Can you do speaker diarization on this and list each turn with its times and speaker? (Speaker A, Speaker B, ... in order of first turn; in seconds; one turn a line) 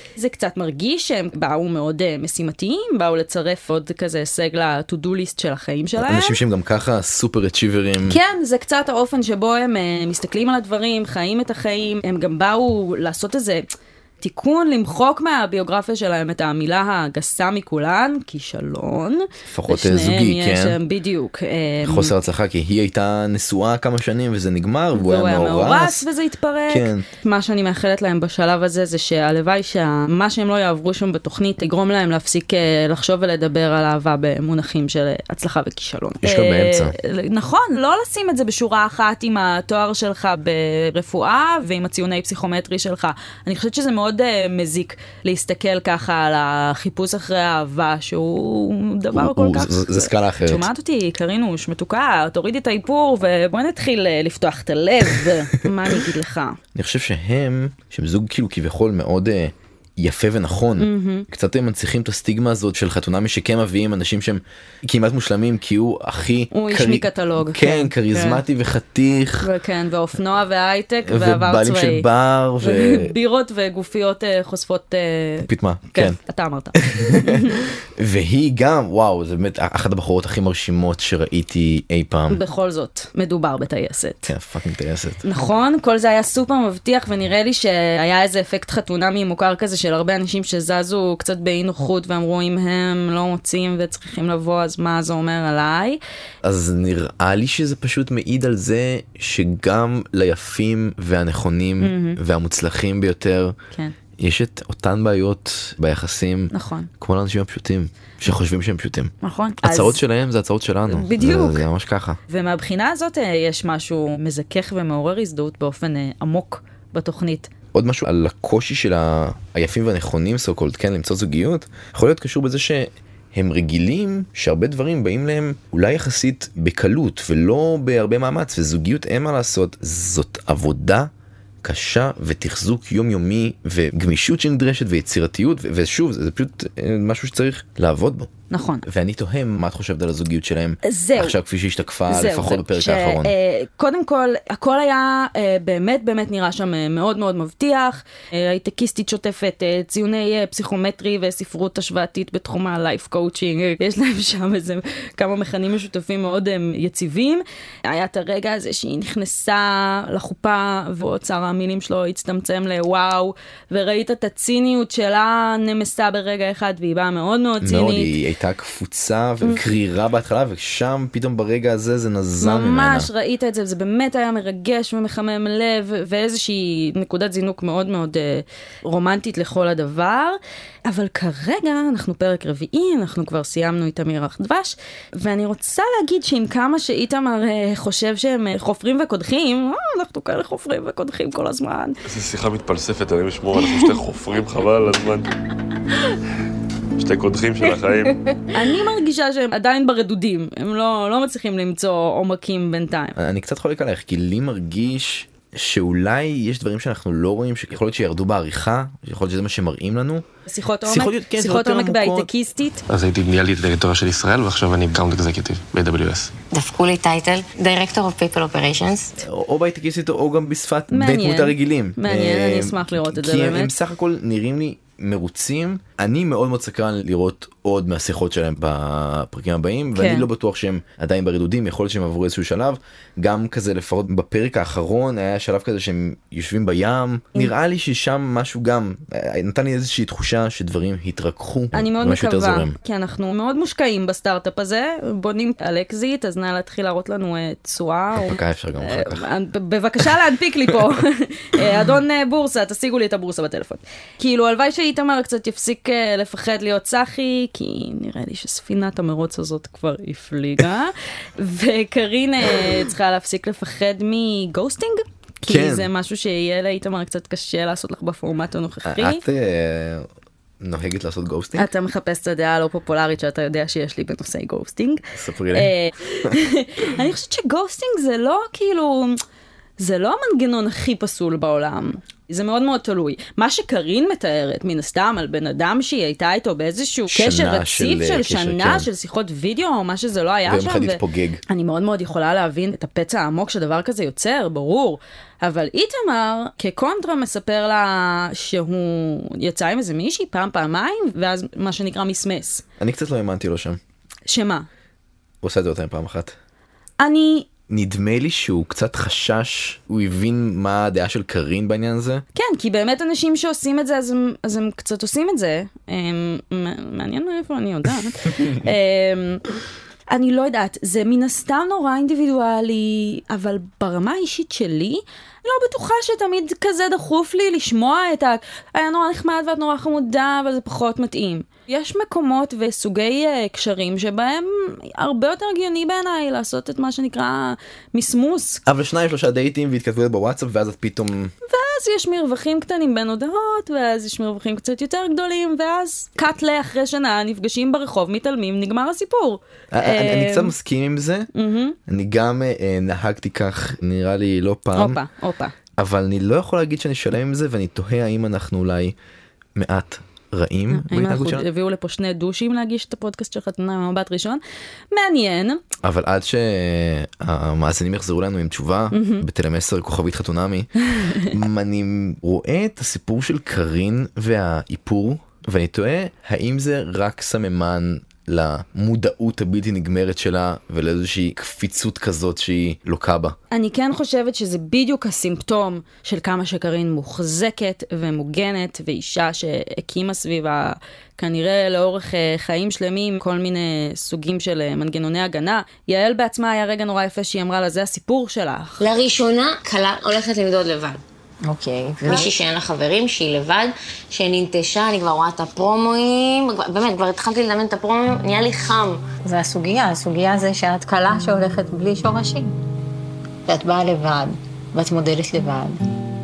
Speaker A: 0.1-6.4
Speaker B: 6.0-8.2
Speaker A: 8.0-13.7
Speaker A: 14.2-22.1
Speaker B: 19.5-20.8
Speaker B: 21.8-26.0
Speaker A: 24.9-56.6
Speaker B: 26.7-27.1
Speaker B: 36.2-36.9
Speaker B: 49.1-50.6
Speaker B: 55.2-55.6
Speaker B: 56.8-69.5
Speaker A: 60.8-61.2
Speaker A: 66.5-68.4
Speaker A: 69.4-72.1
Speaker B: 71.0-73.1
Speaker A: 72.6-77.6
Speaker B: 75.4-76.2
Speaker B: 76.8-82.4
Speaker A: 82.3-84.3
Speaker B: 84.3-85.2
Speaker A: 85.2-96.0
Speaker B: 96.4-103.5
Speaker A: 101.8-102.2
Speaker B: 104.2-112.2
Speaker A: 106.5-106.9
Speaker A: 109.2-110.0
Speaker A: 110.9-111.7
Speaker A: 112.3-117.5
Speaker B: 117.7-131.1
Speaker B: 131.6-138.3
Speaker A: 138.5-138.8
Speaker B: 138.8-143.3
Speaker A: 140.8-141.4
Speaker A: 142.1-168.1
Speaker B: 167.6-173.1
Speaker A: 172.4-192.0
Speaker C: 192.1-195.3
Speaker C: 197.0-198.2
Speaker A: 198.5-203.2
Speaker B: 203.2-210.2
Speaker A: 210.5-212.8
Speaker B: 210.8-212.3
Speaker D: 212.9-216.3
Speaker E: 216.5-219.2
Speaker B: 219.2-242.7
Speaker A: 220.9-223.7
Speaker A: 229.9-230.2
Speaker A: 241.7-269.2
Speaker B: 248.1-249.2
Speaker B: 265.4-265.9
Speaker B: 268.8-270.1
Speaker B: 270.6-271.7
Speaker A: 271.6-279.2
Speaker B: 275.1-275.7
Speaker A: 279.8-302.6
Speaker B: 287.1-288.9
Speaker B: 290.4-291.4
Speaker B: 302.8-303.8
Speaker A: 304.3-304.7
Speaker B: 305.4-306.3
Speaker A: 307.0-307.5
Speaker B: 307.7-312.2
Speaker A: 312.3-319.4
Speaker A: 320.1-338.6
Speaker B: 338.6-341.3
Speaker A: 341.5-350.5
Speaker B: 349.7-351.3
Speaker A: 351.3-351.8
Speaker B: 351.9-355.0
Speaker A: 354.8-355.5
Speaker B: 355.8-358.9
Speaker B: 359.6-361.4
Speaker A: 360.7-364.4
Speaker A: 364.9-365.6
Speaker B: 365.8-370.7
Speaker A: 368.9-369.2
Speaker A: 370.8-371.3
Speaker B: 371.2-383.4
Speaker A: 383.5-398.8
Speaker E: 398.8-401.0
Speaker F: 401.4-402.3
Speaker E: 402.0-409.1
Speaker F: 409.2-412.5
Speaker F: 413.4-415.8